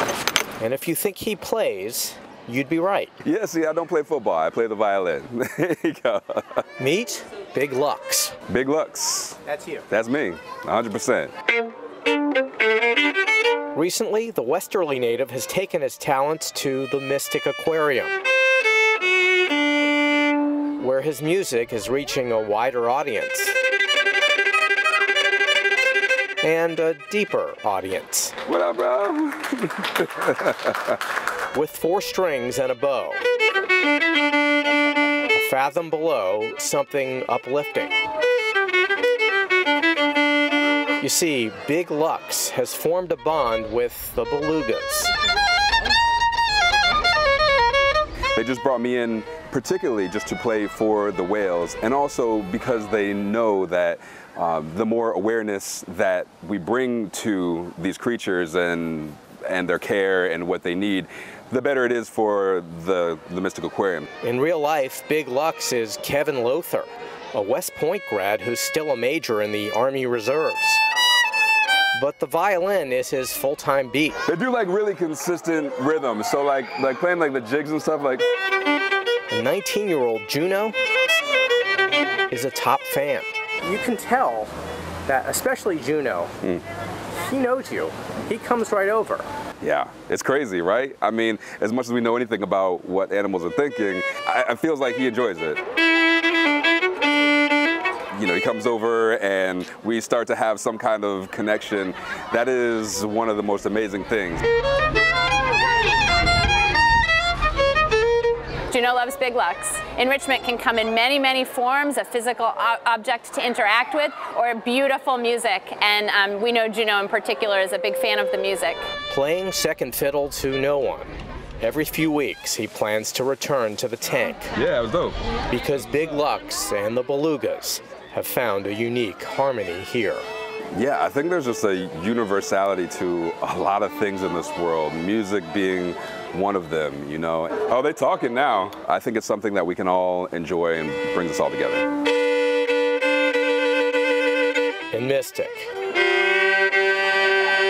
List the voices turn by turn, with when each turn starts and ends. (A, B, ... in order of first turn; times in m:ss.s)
0:00.6-0:03.1 A
0:03.2-0:06.6 B
0:06.8-0:08.4 A
0:08.5-0:11.3 B
0:09.5-0:09.8 A
0:13.7-0:18.2 A
0:20.8-0:23.6 A
0:26.4-0:28.4 A
0:28.5-0:31.0 B
0:31.5-0:33.2 A
0:35.3-0:38.0 A
0:41.0-0:45.1 A
0:48.4-1:04.1 B
1:04.2-1:10.8 A
1:11.9-1:14.2 A
1:14.3-1:18.2 B
1:19.3-1:20.8 A
1:22.3-1:24.5 A
1:25.1-1:26.3 A
1:27.2-1:29.2 A
1:29.6-1:35.6 B
1:38.1-1:44.5 B
1:48.7-1:58.8 C
1:59.1-2:04.5 A
2:04.6-2:05.2 B
2:05.5-2:10.2 A
2:10.7-2:21.9 B
2:24.9-2:25.7 A